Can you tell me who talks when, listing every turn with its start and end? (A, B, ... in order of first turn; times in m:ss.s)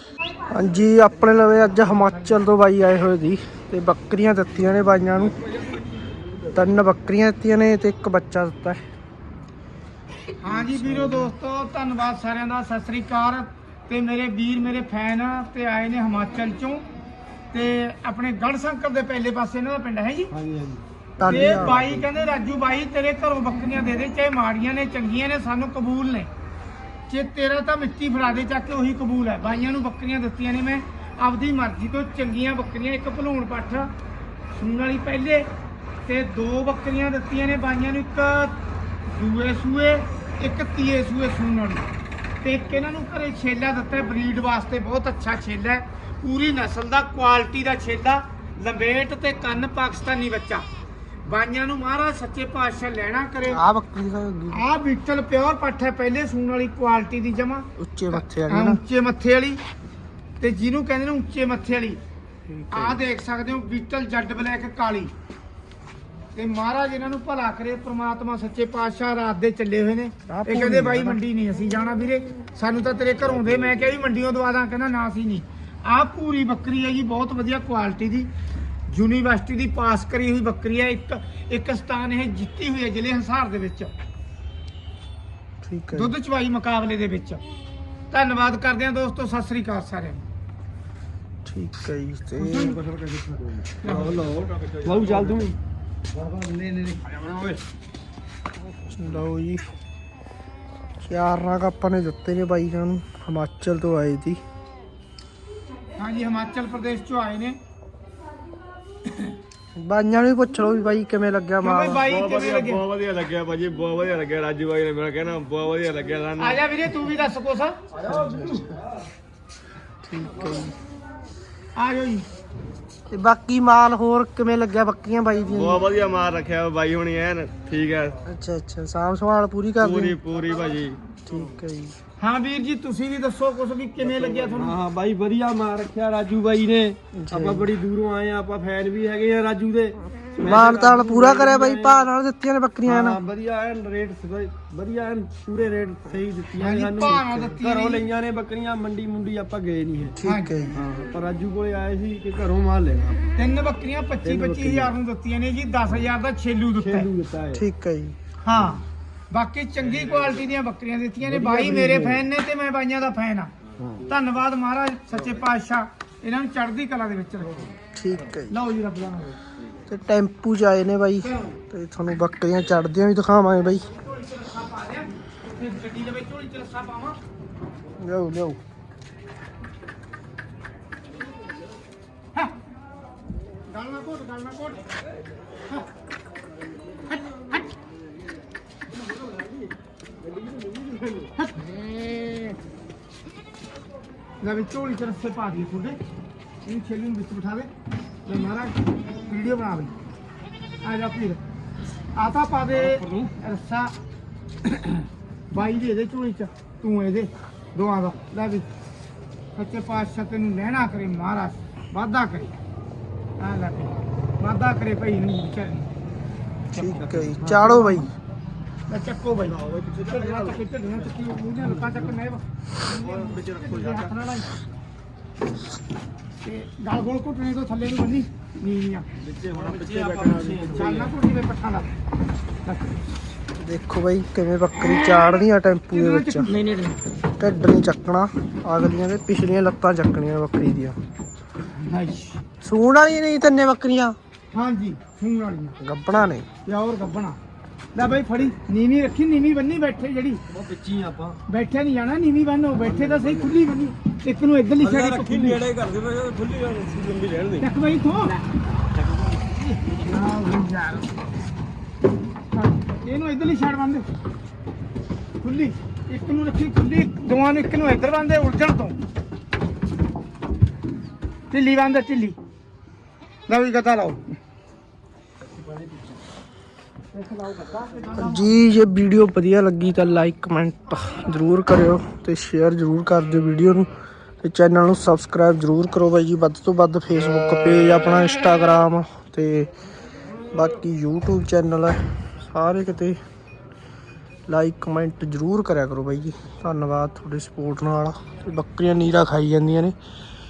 0:00.5-0:05.4 A
0:06.5-0:08.8 A
0:10.4-0:16.8 B
0:10.5-0:11.3 C
0:17.5-0:20.3 B
0:20.3-0:22.0 C
0:21.2-0:21.8 A
0:21.2-0:26.3 B
0:27.1-0:33.9 B
0:34.5-0:35.5 B
0:36.0-0:41.9 B
0:42.4-0:50.6 B
0:51.2-0:53.6 B
0:53.5-0:54.6 A
0:54.5-0:59.6 B
0:57.8-0:58.8 A
1:00.4-1:02.0 B
1:02.5-1:03.0 A
1:02.7-1:05.1 B
1:06.3-1:18.3 B
1:10.3-1:11.2 A
1:18.9-1:23.9 B
1:25.6-1:26.1 A
1:25.9-1:27.4 B
1:28.1-1:30.2 B
1:31.4-1:32.8 A
1:32.4-1:32.8 B
1:32.5-1:35.6 C
1:33.8-1:34.2 B
1:34.6-1:35.4 D
1:36.4-1:37.6 C
1:38.9-1:39.6 A
1:41.0-1:44.4 A
1:46.0-1:47.6 B
1:49.8-1:52.1 A
1:51.6-1:52.8 B
1:52.0-1:56.6 D
1:56.4-1:57.8 B
1:57.9-1:58.9 C
1:58.1-1:58.7 A
2:00.0-2:00.7 A
2:01.8-2:02.3 B
2:03.1-2:05.9 A
2:05.5-2:08.2 D
2:08.3-2:10.2 A
2:09.8-2:11.0 D
2:11.2-2:12.0 A
2:12.2-2:14.8 B
2:14.0-2:22.1 C
2:17.1-2:17.7 A
2:20.4-2:23.2 A
2:22.8-2:30.2 C
2:26.6-2:28.0 B
2:30.2-2:30.8 A
2:30.2-2:30.7 B
2:30.7-2:33.2 C
2:33.4-2:37.1 B
2:34.2-2:34.9 C
2:36.8-2:37.6 C
2:37.5-2:38.2 A
2:38.4-2:43.5 B
2:38.5-2:38.8 C
2:41.2-2:42.2 C
2:43.8-2:44.0 C
2:44.1-2:47.6 B
2:47.9-2:48.6 A
2:48.5-2:49.4 B
2:49.9-2:53.9 A
2:51.2-2:51.6 B
2:53.9-2:57.2 B
2:58.0-2:58.6 A
3:03.7-3:04.9 B
3:07.1-3:07.6 B
3:11.4-3:11.7 B
3:14.4-3:16.0 B
3:16.6-3:17.7 B
3:18.2-3:19.9 B
3:20.8-3:21.4 B
3:22.1-3:23.9 B
3:22.7-3:23.3 C
3:24.6-3:28.7 B
3:29.5-3:32.5 B
3:33.4-3:35.9 B
3:36.7-3:38.1 A
3:36.7-3:38.1 B
3:37.2-3:37.6 C
3:38.9-3:44.6 B
3:39.6-3:40.2 D
3:43.2-3:44.0 D
3:46.4-3:49.1 B
3:49.2-3:51.1 C
3:49.9-3:50.4 D
3:50.5-3:50.8 A
3:50.8-3:51.9 B
3:53.6-3:56.6 A
3:54.8-3:56.9 B
3:57.4-4:01.0 A
4:01.8-4:02.4 B
4:02.6-4:04.2 A
4:04.5-4:05.8 B
4:05.8-4:06.5 A
4:06.6-4:07.4 B
4:07.9-4:10.4 B
4:10.5-4:11.4 C
4:11.5-4:15.6 B
4:12.8-4:13.5 C
4:14.8-4:17.7 C
4:17.6-4:18.4 B
4:19.5-4:21.1 B
4:22.5-4:24.1 B
4:25.4-4:29.0 B
4:31.5-4:32.4 B
4:33.5-4:34.4 B
4:37.1-4:38.5 B
4:38.1-4:43.9 A
4:44.4-4:49.7 A
4:50.5-4:53.2 A
4:54.5-4:59.9 A